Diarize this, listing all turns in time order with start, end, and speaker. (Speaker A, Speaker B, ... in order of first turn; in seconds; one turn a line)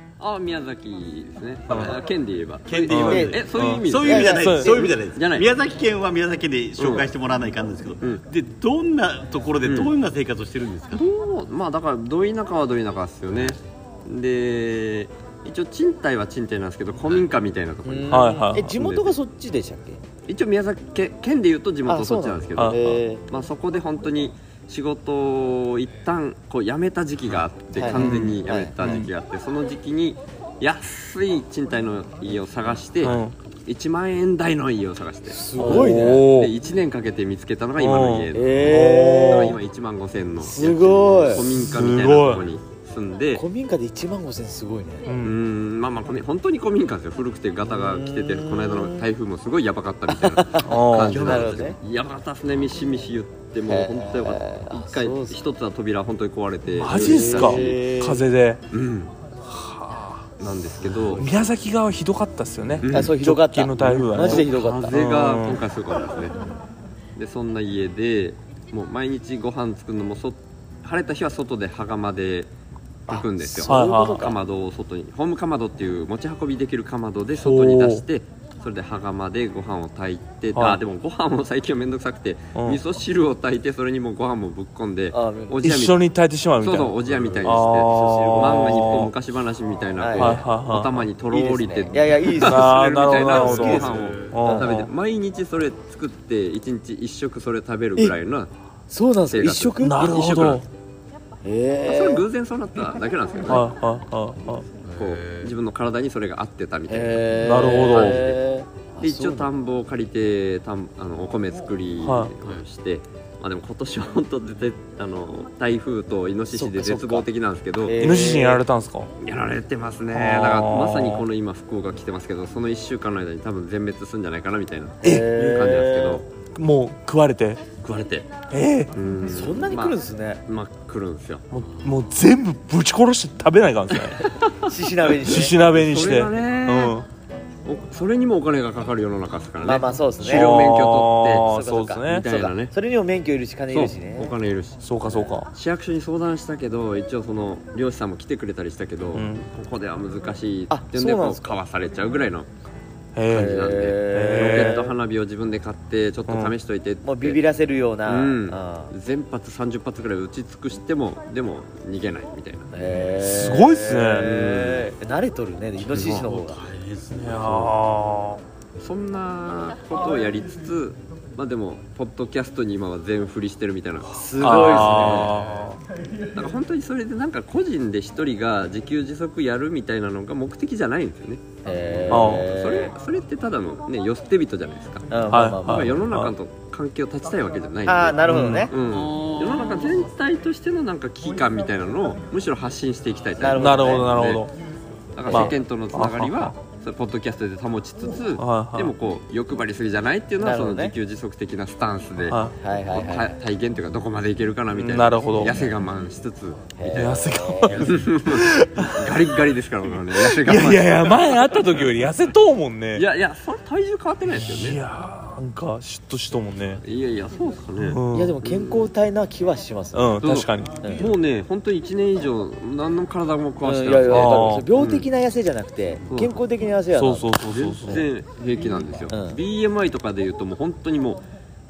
Speaker A: 0.2-5.5
Speaker B: 1.7-2.0
Speaker B: 2.7-11.1
Speaker C: 2.9-4.8
Speaker D: 3.1-3.4
Speaker D: 4.0-5.0
Speaker A: 6.8-7.1
Speaker A: 9.6-9.9
Speaker A: 10.9-19.1
Speaker D: 17.9-20.0
Speaker C: 18.1-18.8
Speaker A: 20.3-43.4
Speaker D: 21.9-23.2
Speaker C: 22.6-23.0
Speaker D: 27.8-28.7
Speaker C: 28.0-29.1
Speaker C: 33.0-33.3
Speaker D: 35.3-36.3
Speaker C: 35.6-36.5
Speaker C: 37.8-39.6
Speaker D: 38.3-39.6
Speaker D: 40.4-41.5
Speaker C: 41.5-42.5
Speaker D: 43.4-45.1
Speaker C: 45.1-45.4
Speaker A: 45.2-57.9
Speaker D: 47.7-49.0
Speaker D: 50.1-51.8
Speaker C: 50.6-51.4
Speaker D: 53.7-55.4
Speaker C: 56.8-58.6
Speaker D: 56.9-58.2
Speaker A: 58.7-59.1
Speaker C: 59.5-60.3
Speaker A: 60.4-61.3
Speaker C: 61.2-65.6
Speaker A: 62.8-63.1
Speaker D: 62.9-64.9
Speaker A: 64.0-66.4
Speaker A: 67.2-72.5
Speaker D: 73.1-74.2
Speaker A: 73.1-86.1
Speaker C: 73.6-74.3
Speaker C: 77.4-78.0
Speaker C: 82.5-82.8
Speaker D: 85.1-85.6
Speaker C: 85.6-89.1
Speaker A: 86.6-98.5
Speaker B: 87.1-87.5
Speaker D: 90.0-90.4
Speaker C: 90.2-91.1
Speaker D: 91.3-94.8
Speaker C: 92.4-94.9
Speaker B: 93.7-94.4
Speaker D: 98.9-100.2
Speaker A: 99.3-100.7
Speaker C: 99.8-100.7
Speaker D: 101.5-102.2
Speaker A: 101.8-103.7
Speaker C: 103.5-104.7
Speaker B: 104.8-105.5
Speaker A: 105.0-108.4
Speaker D: 106.9-109.5
Speaker C: 107.4-108.2
Speaker A: 109.0-118.0
Speaker C: 112.0-112.3
Speaker D: 116.5-117.3
Speaker D: 117.8-118.6
Speaker C: 118.0-119.1
Speaker A: 119.2-126.3
Speaker C: 120.1-121.2
Speaker D: 125.0-126.2
Speaker C: 125.0-125.3
Speaker C: 126.5-127.6
Speaker A: 127.8-128.4
Speaker C: 128.5-128.9
Speaker A: 128.9-131.5
Speaker D: 129.2-130.4
Speaker C: 131.5-134.3
Speaker B: 131.7-132.1
Speaker D: 134.6-135.6
Speaker C: 135.2-137.1
Speaker A: 135.6-137.0
Speaker A: 137.7-142.7
Speaker D: 139.6-140.7
Speaker C: 140.2-142.3
Speaker D: 141.4-144.3
Speaker A: 143.7-144.8
Speaker C: 144.8-145.5
Speaker A: 145.5-152.5
Speaker C: 149.1-149.5
Speaker D: 150.7-151.6
Speaker C: 153.2-154.8
Speaker A: 153.3-157.4
Speaker D: 153.3-154.9
Speaker C: 156.3-156.5
Speaker D: 157.0-158.9
Speaker A: 158.1-162.7
Speaker D: 162.7-166.6
Speaker C: 163.2-164.3
Speaker A: 164.2-164.9
Speaker B: 165.9-167.8
Speaker A: 165.9-166.2
Speaker C: 167.2-168.4
Speaker A: 168.8-175.4
Speaker D: 174.1-175.3
Speaker C: 174.4-175.8
Speaker A: 176.3-194.5
Speaker D: 181.7-182.9
Speaker C: 182.1-182.5
Speaker D: 185.1-186.0
Speaker C: 185.3-186.3
Speaker D: 187.9-188.7
Speaker C: 188.3-188.7
Speaker B: 188.9-190.1
Speaker D: 193.4-194.2
Speaker C: 193.6-194.5
Speaker A: 195.2-202.4
Speaker D: 195.3-195.6
Speaker C: 195.3-196.5
Speaker C: 198.4-198.9
Speaker D: 200.4-200.9
Speaker C: 202.3-202.6
Speaker D: 202.6-203.3
Speaker A: 202.9-211.9
Speaker C: 204.7-205.6
Speaker D: 206.8-208.1
Speaker C: 206.9-209.1
Speaker C: 210.2-213.1
Speaker A: 212.9-214.8
Speaker C: 214.3-216.8
Speaker A: 216.8-218.9
Speaker C: 217.8-218.4
Speaker D: 218.1-220.2
Speaker C: 219.9-221.0
Speaker A: 220.2-225.1
Speaker D: 220.8-221.1
Speaker D: 223.6-227.3
Speaker C: 224.1-224.7
Speaker A: 226.1-226.4
Speaker C: 226.9-228.1
Speaker A: 227.4-231.2
Speaker D: 229.1-229.4